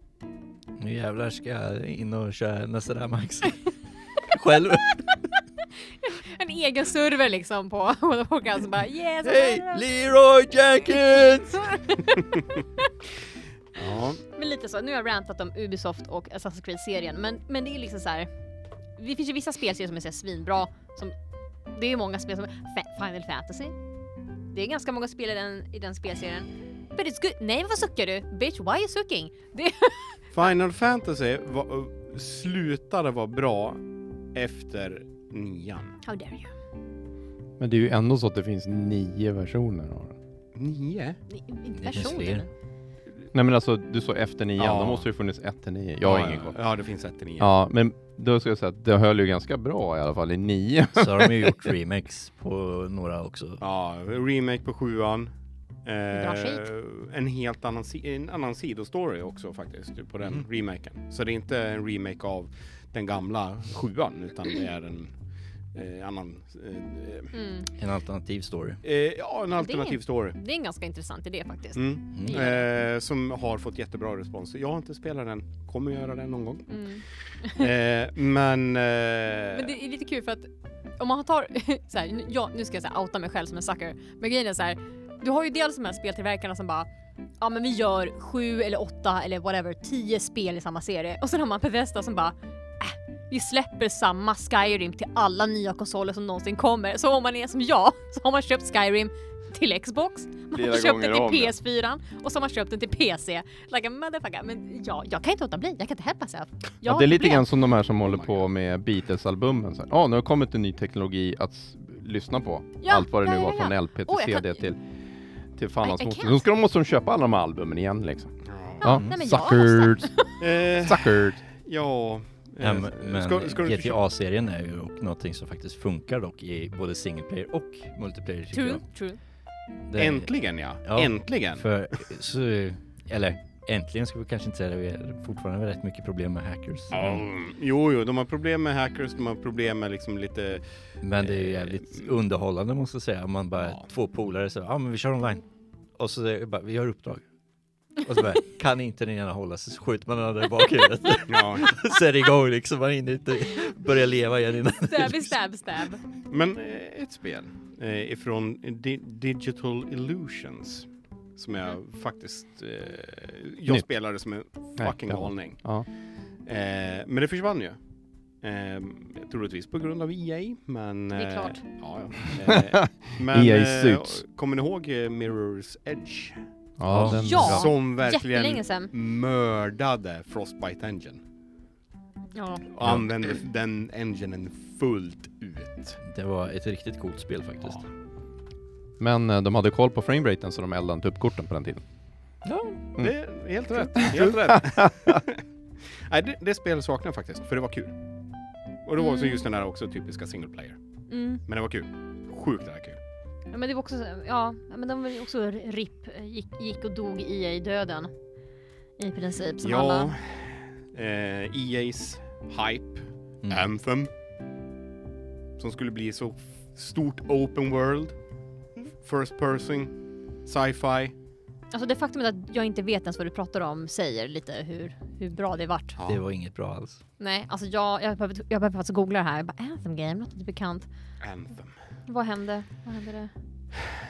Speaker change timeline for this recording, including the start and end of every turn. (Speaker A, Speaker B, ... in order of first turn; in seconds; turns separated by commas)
Speaker A: 0.8-5.1, Speaker B: 6.0-9.8, Speaker A: 9.2-11.7, Speaker B: 11.5-12.9, Speaker C: 13.7-14.2, Speaker B: 14.2-18.3, Speaker B: 19.0-21.1, Speaker B: 21.7-23.7, Speaker B: 24.5-30.2, Speaker C: 30.3-35.9, Speaker B: 36.0-36.5, Speaker D: 37.6-40.1, Speaker C: 40.5-41.2, Speaker B: 41.3-42.5, Speaker A: 41.8-42.5, Speaker D: 43.3-46.6, Speaker C: 44.6-45.0, Speaker C: 46.0-47.5, Speaker D: 47.4-51.7, Speaker A: 51.0-53.6, Speaker C: 53.6-55.3, Speaker C: 55.8-65.1, Speaker B: 56.1-56.6, Speaker C: 65.7-67.3, Speaker B: 67.3-67.7, Speaker A: 67.8-68.8, Speaker C: 68.8-70.4, Speaker B: 69.6-72.7, Speaker C: 71.7-76.7, Speaker A: 72.1-72.4, Speaker B: 76.7-77.7, Speaker C: 77.5-79.7, Speaker B: 79.5-86.9, Speaker B: 87.4-107.5, Speaker D: 100.5-101.5, Speaker D: 106.8-114.8, Speaker C: 108.0-108.4, Speaker B: 112.8-114.7, Speaker D: 115.5-120.1, Speaker B: 115.8-116.4, Speaker C: 118.5-118.8, Speaker B: 118.8-120.4, Speaker C: 120.4-124.0, Speaker D: 120.8-121.4, Speaker A: 122.6-128.8, Speaker B: 128.5-129.2, Speaker A: 129.9-130.3, Speaker C: 130.0-131.7, Speaker A: 130.8-137.2, Speaker C: 136.9-140.6, Speaker A: 141.0-145.4, Speaker C: 141.2-142.1, Speaker A: 146.0-147.2, Speaker A: 148.0-155.3, Speaker C: 151.3-151.7, Speaker B: 154.9-156.0, Speaker C: 156.3-165.6, Speaker D: 164.8-165.9, Speaker C: 166.4-167.8, Speaker C: 168.4-176.4, Speaker B: 171.1-171.6, Speaker D: 172.4-174.2, Speaker D: 176.8-177.7, Speaker A: 176.9-177.6, Speaker B: 177.1-178.9, Speaker C: 177.3-181.2, Speaker B: 182.3-182.7, Speaker C: 182.7-186.0, Speaker A: 186.0-187.8, Speaker D: 189.0-191.8, Speaker A: 192.4-192.8, Speaker C: 193.0-195.4, Speaker D: 193.7-195.2, Speaker C: 196.1-197.9, Speaker C: 198.8-200.8, Speaker B: 199.0-199.4, Speaker B: 201.1-201.4, Speaker C: 201.5-203.0, Speaker B: 203.5-208.1, Speaker B: 209.0-210.1, Speaker C: 209.6-214.1, Speaker C: 215.6-218.2, Speaker C: 219.0-221.1, Speaker B: 221.7-226.0, Speaker C: 226.0-226.2, Speaker A: 226.0-227.0, Speaker B: 227.2-230.9, Speaker C: 231.2-231.7, Speaker B: 232.1-233.3